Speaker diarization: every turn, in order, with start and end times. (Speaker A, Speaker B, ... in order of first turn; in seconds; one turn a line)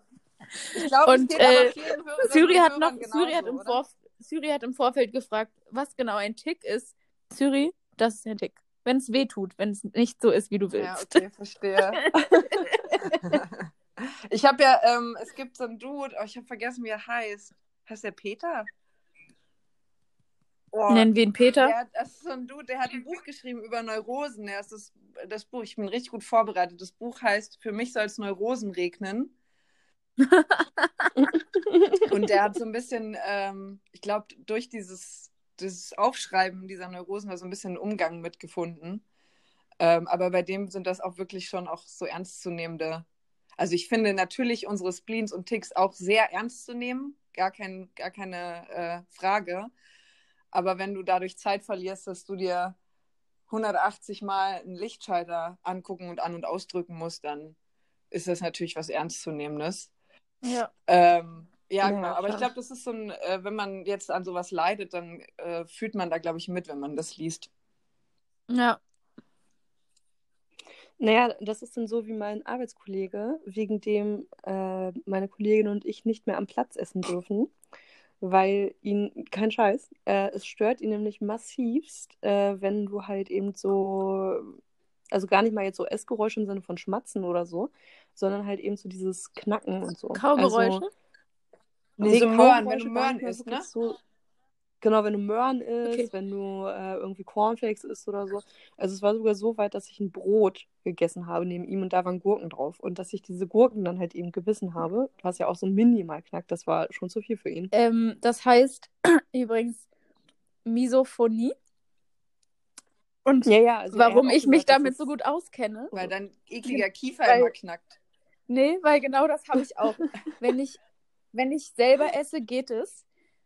Speaker A: 0.7-3.8
Speaker B: 1.0-11.2
Speaker A: 10.8-12.0
Speaker B: 11.9-13.4
Speaker C: 12.2-12.6
Speaker A: 13.2-13.6
Speaker A: 14.3-18.7
Speaker A: 20.7-29.3
Speaker B: 20.9-21.7
Speaker B: 30.2-31.1
Speaker C: 31.2-32.1
Speaker A: 32.1-39.0
Speaker A: 39.8-43.1
Speaker A: 43.6-49.7
Speaker A: 50.5-52.8
Speaker A: 53.5-57.5
Speaker A: 58.1-59.9
Speaker B: 60.4-60.7
Speaker A: 60.9-67.5
Speaker C: 61.8-62.5
Speaker B: 68.5-68.8
Speaker C: 71.0-77.5
Speaker C: 78.2-84.6
Speaker C: 85.1-90.9
Speaker B: 90.1-90.9
Speaker A: 92.0-93.7
Speaker C: 92.0-94.0
Speaker C: 94.8-107.7
Speaker B: 107.7-109.9
Speaker B: 110.7-111.5
Speaker B: 113.2-116.0
Speaker C: 113.5-115.1
Speaker A: 115.9-118.0
Speaker B: 116.7-117.5
Speaker B: 118.5-120.8
Speaker B: 121.3-123.0